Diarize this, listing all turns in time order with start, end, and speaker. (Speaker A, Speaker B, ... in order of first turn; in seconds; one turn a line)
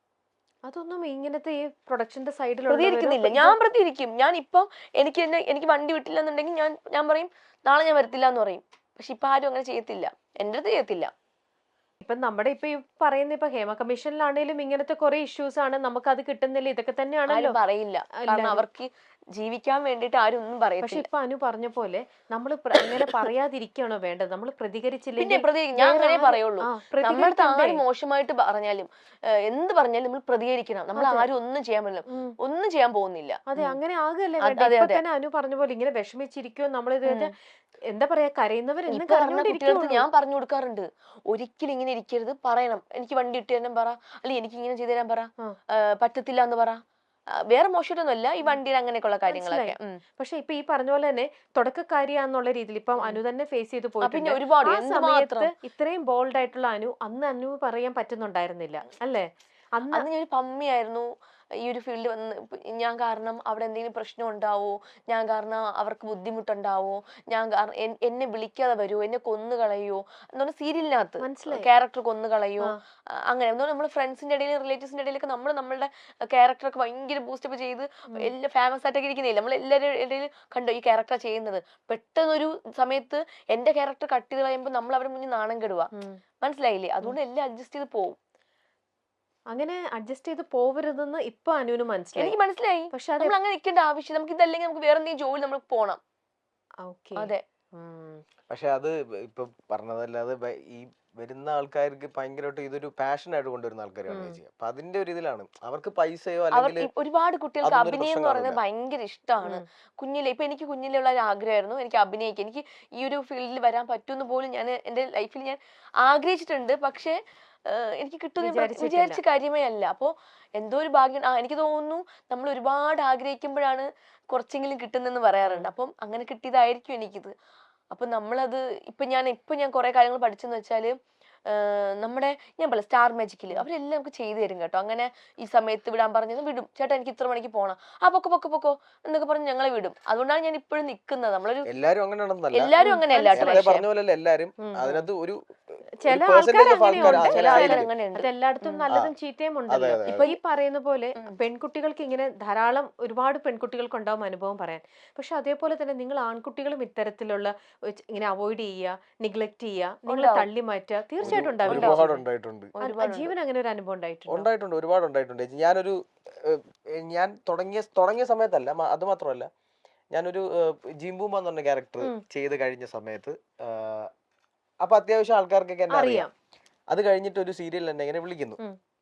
Speaker A: 0.7-3.6
Speaker B: 2.7-11.1
Speaker A: 12.0-17.6
Speaker B: 17.3-21.0
Speaker A: 18.2-18.6
Speaker A: 20.8-27.8
Speaker B: 22.8-23.2
Speaker B: 25.2-33.8
Speaker A: 30.9-31.2
Speaker A: 33.5-37.3
Speaker B: 34.4-35.0
Speaker A: 37.9-40.1
Speaker B: 38.9-46.8
Speaker B: 47.5-50.0
Speaker A: 49.3-60.0
Speaker B: 54.0-55.5
Speaker B: 59.9-61.1
Speaker B: 61.6-72.7
Speaker A: 71.2-71.7
Speaker B: 73.3-85.9
Speaker A: 85.9-86.2
Speaker B: 86.4-88.2
Speaker A: 89.5-92.3
Speaker B: 92.2-96.0
Speaker A: 92.9-93.3
Speaker A: 96.8-98.2
Speaker B: 97.2-97.4
Speaker C: 98.5-106.9
Speaker A: 104.1-104.4
Speaker B: 106.5-127.3
Speaker C: 107.6-108.6
Speaker A: 118.4-119.2
Speaker A: 125.4-125.7
Speaker B: 127.9-130.9
Speaker B: 131.5-141.7
Speaker C: 141.7-145.4
Speaker B: 142.5-143.8
Speaker A: 142.8-143.6
Speaker A: 144.6-145.1
Speaker A: 146.0-162.2
Speaker C: 146.1-147.9
Speaker B: 146.9-148.9
Speaker C: 149.7-150.3
Speaker B: 150.1-150.4
Speaker B: 160.1-160.4
Speaker C: 161.2-162.7
Speaker B: 161.3-162.0
Speaker B: 162.8-163.3
Speaker A: 162.8-164.5
Speaker C: 164.3-169.5
Speaker C: 170.1-174.1
Speaker C: 174.8-176.3
Speaker A: 175.9-176.3
Speaker C: 176.9-178.6